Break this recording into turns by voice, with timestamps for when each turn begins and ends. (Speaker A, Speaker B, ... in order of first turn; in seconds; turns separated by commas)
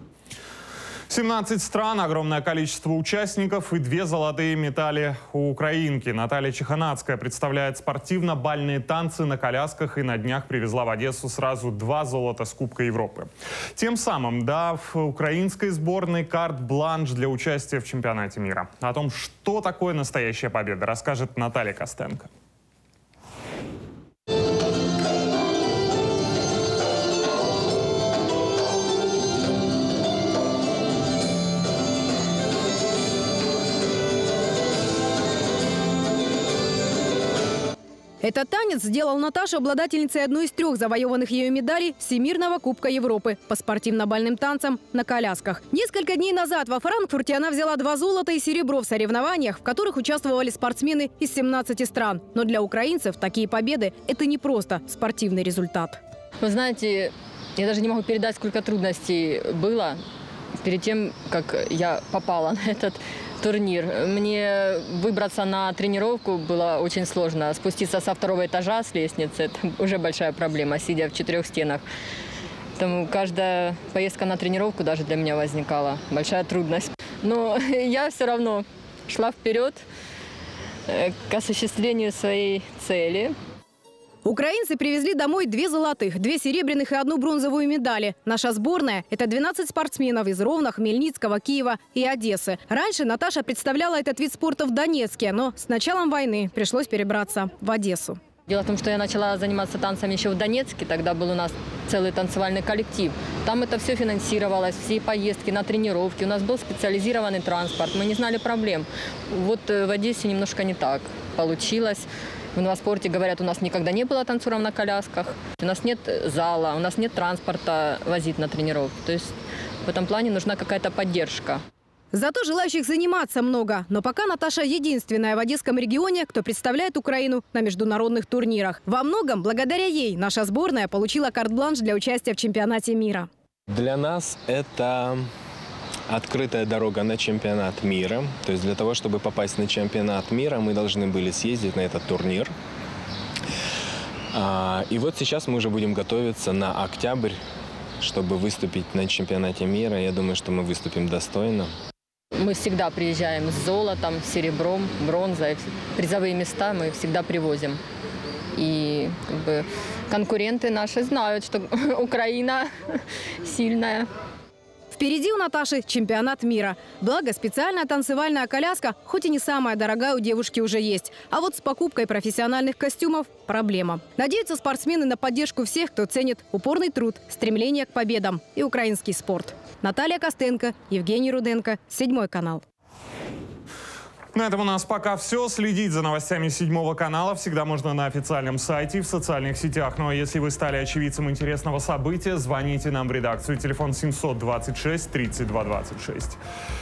Speaker A: 1.1-22.3, Speaker B: 38.2-56.0, Speaker C: 56.4-60.0, Speaker C: 60.6-71.8, Speaker C: 72.8-79.8, Speaker C: 80.9-83.3, Speaker B: 84.2-98.2, Speaker C: 98.5-119.3, Speaker C: 119.8-121.6, Speaker B: 122.1-133.3, Speaker D: 133.7-135.3, Speaker D: 136.1-142.5, Speaker D: 144.3-147.4, Speaker D: 148.0-151.7, Speaker C: 152.4-157.8, Speaker C: 158.6-164.1, Speaker B: 164.9-182.6, Speaker A: 184.3-196.4